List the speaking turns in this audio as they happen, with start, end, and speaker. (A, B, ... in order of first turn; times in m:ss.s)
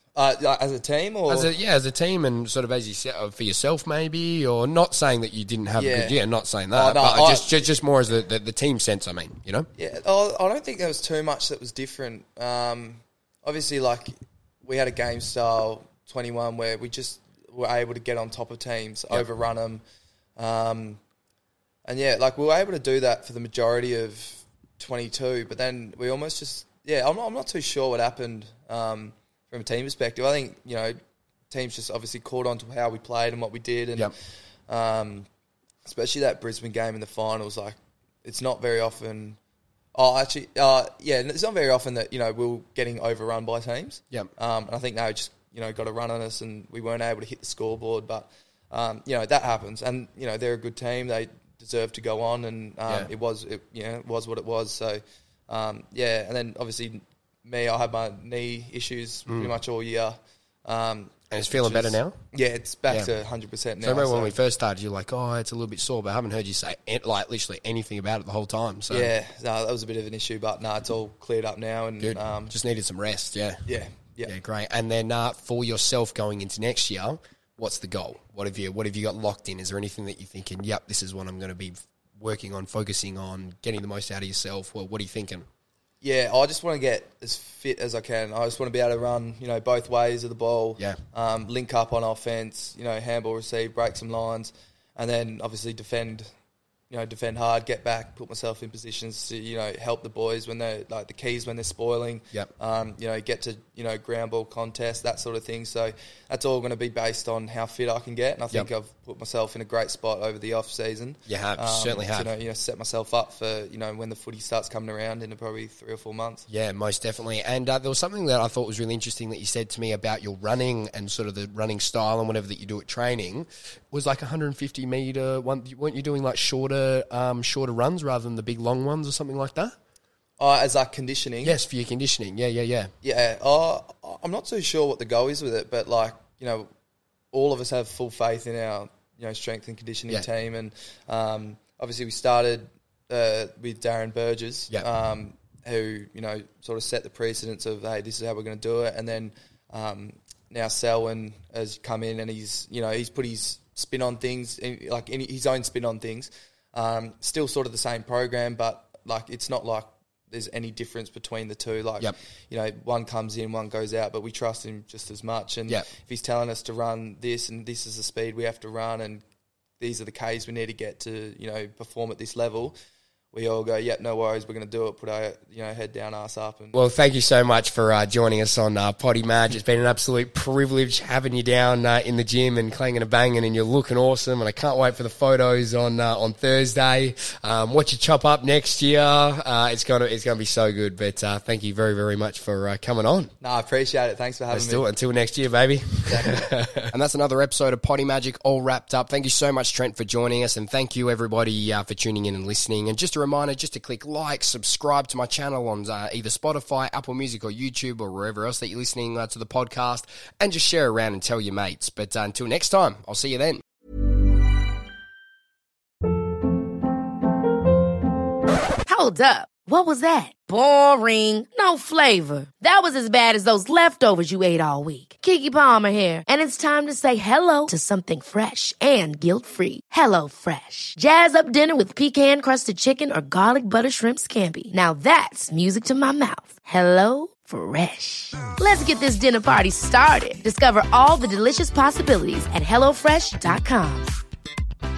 0:00.2-0:01.5 A
0:01.3-0:09.7 B
0:05.8-0:06.2 A
0:06.7-0:07.6 A
0:09.8-0:19.8 A
0:20.4-0:21.0 A
0:21.9-0:31.0 A
0:31.5-0:34.1 A
0:34.7-0:35.3 A
0:35.8-0:39.4 A
0:40.0-1:04.4 A
0:59.3-0:59.5 B
1:01.3-1:02.2 B
1:03.8-1:09.1 B
1:08.9-1:12.5 A
1:12.0-1:13.6 B
1:13.7-1:14.3 A
1:14.3-1:25.5 B
1:26.0-1:36.3 A
1:36.9-1:56.5 A
1:51.3-1:52.3 B
1:56.5-2:09.8 B
2:10.4-2:11.6 A
2:11.4-2:12.9 B
2:13.0-2:16.7 A
2:17.3-2:49.2 A
2:49.8-2:52.8 A
2:53.3-2:56.8 A
2:56.7-3:13.3 B
3:13.4-3:14.9 A
3:14.5-3:33.6 B
3:16.1-3:16.5 A
3:38.9-4:04.1 C